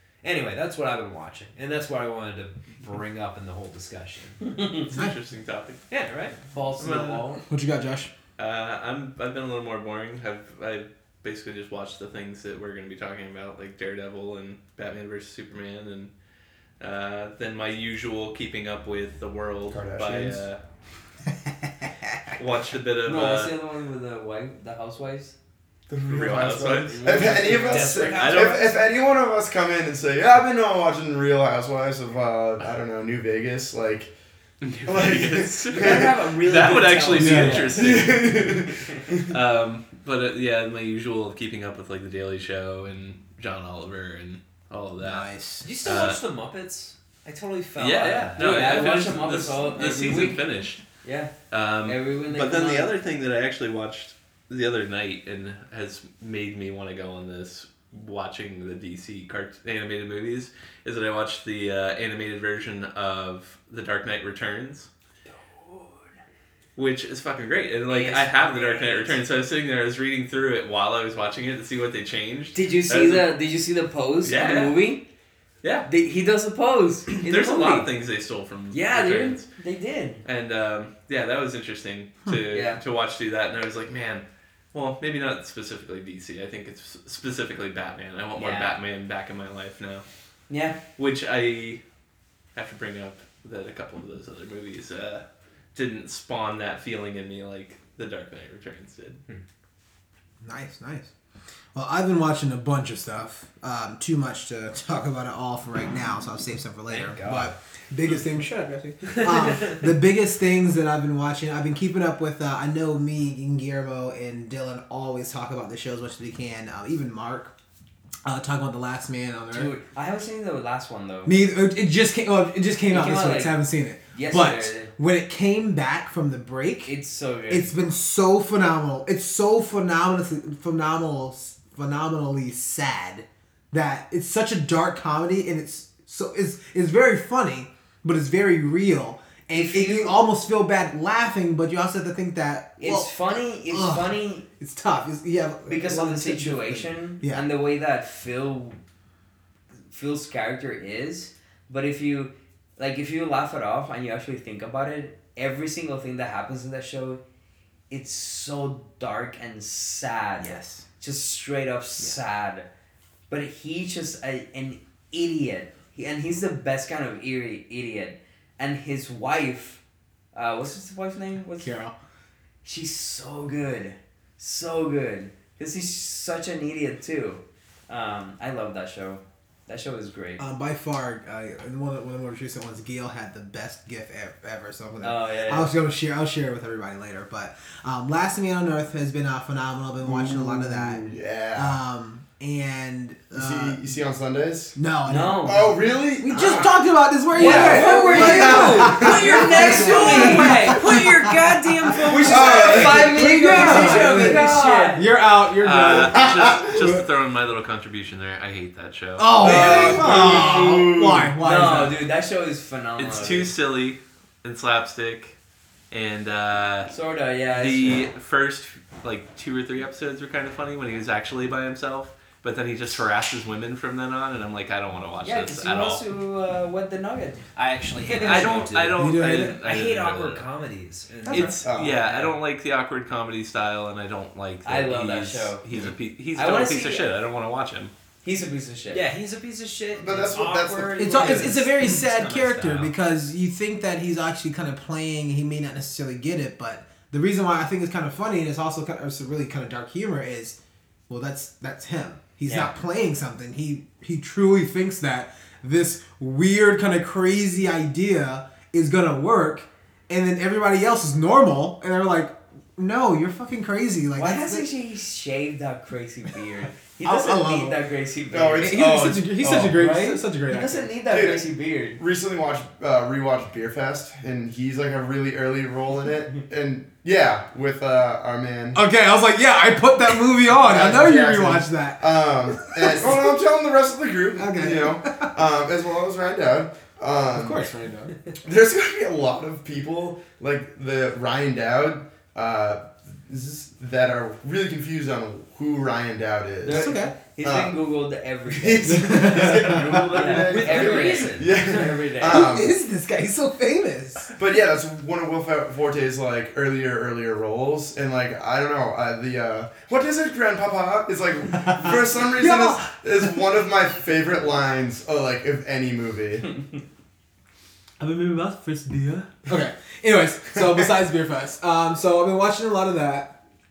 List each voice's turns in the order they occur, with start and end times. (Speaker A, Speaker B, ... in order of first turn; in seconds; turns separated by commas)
Speaker A: 0.2-4.4, Speaker B: 4.4-4.8, Speaker C: 4.7-5.8, Speaker A: 5.9-6.4, Speaker B: 6.5-7.4, Speaker C: 6.8-7.2, Speaker D: 7.5-8.1, Speaker C: 8.4-16.1, Speaker C: 16.8-20.6, Speaker E: 19.7-20.4, Speaker C: 22.3-23.5, Speaker B: 23.0-25.3, Speaker E: 25.9-34.1, Speaker C: 26.0-28.7, Speaker B: 26.5-28.1, Speaker A: 27.5-28.8, Speaker C: 34.6-38.7, Speaker E: 34.8-36.2, Speaker B: 35.7-38.1, Speaker D: 37.1-37.7, Speaker E: 37.6-39.2, Speaker C: 39.3-46.2, Speaker D: 45.0-45.8, Speaker A: 45.6-49.2, Speaker C: 47.8-50.8, Speaker B: 48.0-50.4, Speaker B: 51.0-51.3, Speaker C: 51.5-64.9, Speaker B: 51.8-52.9, Speaker C: 66.8-73.3, Speaker B: 67.9-69.2, Speaker B: 72.5-75.0, Speaker C: 74.2-74.8, Speaker B: 75.8-77.8, Speaker C: 77.1-79.5, Speaker B: 78.7-80.2, Speaker C: 80.2-90.0, Speaker B: 82.5-82.8, Speaker B: 88.3-88.8, Speaker B: 90.5-90.8, Speaker C: 91.0-91.8, Speaker C: 92.5-99.2, Speaker D: 100.4-101.1, Speaker D: 101.7-117.5, Speaker A: 106.9-107.5, Speaker D: 118.2-119.7, Speaker B: 119.5-121.3, Speaker D: 121.2-126.9, Speaker B: 122.9-123.5, Speaker B: 124.1-124.9, Speaker B: 126.8-127.7, Speaker D: 127.5-147.4, Speaker B: 139.5-140.2, Speaker B: 142.8-144.4, Speaker B: 145.7-148.8, Speaker B: 149.9-157.2, Speaker B: 157.9-162.7, Speaker D: 160.4-160.8, Speaker B: 163.3-169.8, Speaker B: 170.3-171.7, Speaker D: 171.6-171.9, Speaker B: 172.6-180.4, Speaker D: 180.4-191.0, Speaker B: 185.0-185.7, Speaker E: 190.0-191.8, Speaker D: 191.5-193.9, Speaker E: 193.3-194.8, Speaker D: 194.8-195.6, Speaker B: 195.1-195.8, Speaker E: 195.4-196.8, Speaker D: 196.2-207.0, Speaker B: 197.3-205.1, Speaker A: 197.3-205.0, Speaker E: 197.4-199.7, Speaker E: 202.2-203.2, Speaker C: 205.6-210.1, Speaker D: 209.2-212.0, Speaker E: 209.4-211.3, Speaker B: 209.4-210.7, Speaker B: 211.4-213.5, Speaker C: 213.0-215.4, Speaker C: 215.9-216.9, Speaker B: 216.9-218.1, Speaker C: 217.5-226.0, Speaker B: 225.2-228.5, Speaker A: 227.5-232.3, Speaker C: 228.1-230.5, Speaker D: 229.0-229.6, Speaker C: 231.2-237.9, Speaker D: 231.3-231.5, Speaker E: 231.6-232.0, Speaker B: 234.6-235.6, Speaker B: 236.3-237.1, Speaker B: 238.2-239.0, Speaker A: 238.9-242.9, Speaker E: 239.9-241.6, Speaker D: 241.0-250.6, Speaker D: 251.1-264.6, Speaker B: 252.4-252.7, Speaker B: 264.1-268.9, Speaker D: 267.0-267.8, Speaker E: 268.3-269.8, Speaker D: 268.6-270.9, Speaker B: 269.8-272.0, Speaker E: 271.0-278.8, Speaker D: 278.7-283.3, Speaker E: 280.5-287.7, Speaker D: 284.3-285.3, Speaker D: 287.3-288.1, Speaker E: 288.4-297.8, Speaker B: 296.6-302.5, Speaker D: 296.7-297.1, Speaker E: 298.5-302.7, Speaker D: 298.8-300.3, Speaker A: 300.1-301.8, Speaker D: 302.2-304.3, Speaker E: 304.3-316.5, Speaker D: 311.6-313.6, Speaker D: 318.0-323.4